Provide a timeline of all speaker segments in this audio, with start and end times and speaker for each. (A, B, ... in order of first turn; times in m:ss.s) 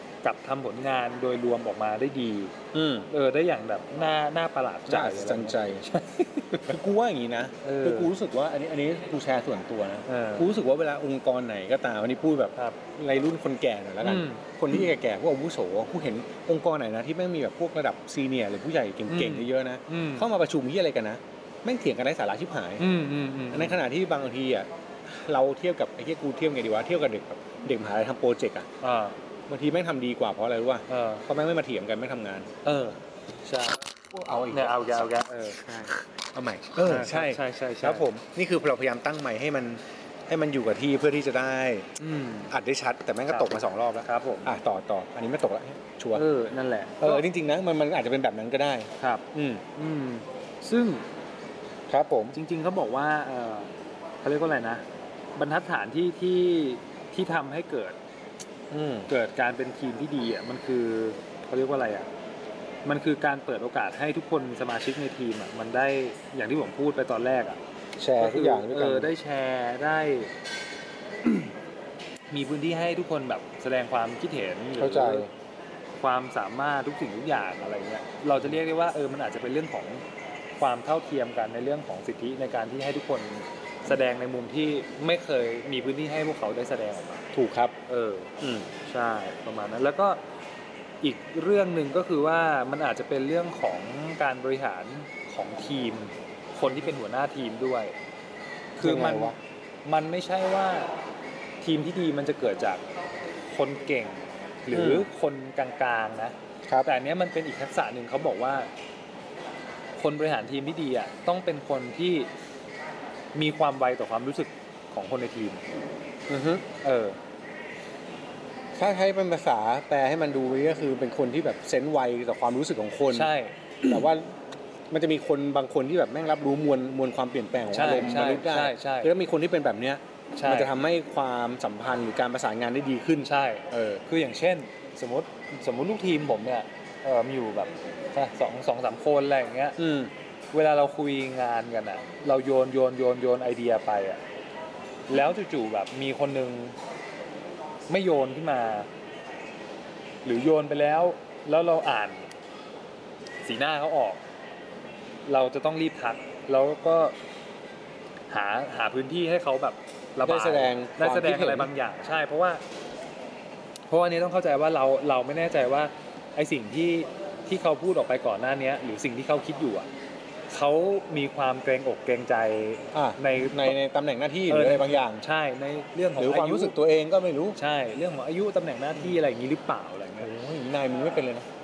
0:00.2-0:02.6 A
0:02.7-0:03.1 B
0:03.1-0:06.6 A
0:04.9-0:05.9 B
0:06.5-0:22.8 B
0:07.6-0:08.1 A
0:10.1-0:10.5 A
0:14.0-0:14.4 A
0:19.1-0:20.3 A
0:22.8-0:23.8 A
0:23.5-0:28.7 B
0:28.8-0:29.2 A
0:29.5-0:32.5 B
0:30.9-0:31.2 A
0:32.6-0:33.8 A
0:34.1-0:35.1 B
0:34.5-0:35.6 A
0:35.6-0:41.9 B
0:36.8-0:38.1 A
0:42.0-0:42.5 A
0:42.5-0:46.3 B
0:43.3-0:44.6 A
0:46.1-0:47.2 A
0:47.0-0:49.6 B
0:49.0-0:51.1 A
0:51.9-0:52.4 B
0:52.3-0:53.7 A
0:54.2-0:54.8 A
0:55.4-0:58.0 A
0:58.7-0:59.1 B
0:59.1-1:02.1 A
1:02.8-1:07.6 A
1:08.0-1:09.1 B
1:08.2-1:10.3 A
1:11.2-1:11.5 A
1:12.3-1:15.3 A
1:14.8-1:15.3 B
1:16.0-1:20.0 A
1:20.6-1:27.3 A
1:27.3-1:27.8 B
1:27.9-1:30.2 A
1:28.4-1:28.7 B
1:31.0-1:38.0 A
1:38.8-1:40.9 A
1:38.8-1:39.4 B
1:41.6-1:42.8 A
1:43.5-1:48.7 A
1:44.7-1:45.1 B
1:50.0-1:52.3 A
1:53.4-1:55.6 A
1:56.3-1:56.7 B
1:56.8-1:57.2 A
1:58.8-2:03.3 B
2:03.1-2:04.0 A
2:03.8-2:04.4 B
2:04.9-2:14.0 B
2:07.7-2:09.1 A
2:10.4-2:10.7 A
2:13.2-2:19.8 A
2:19.8-2:20.1 B
2:20.5-2:24.2 A
2:25.1-2:26.8 A
2:27.9-2:28.9 A
2:30.2-2:32.3 A
2:33.4-2:34.2 A
2:35.3-2:37.2 A
2:38.3-2:42.6 A
2:40.2-2:41.7 B
2:43.9-2:49.9 A
2:50.5-2:53.8 A
2:52.9-2:55.2 B
2:54.5-2:56.8 A
2:56.2-2:57.6 B
2:57.6-3:00.3 A
3:00.2-3:01.5 B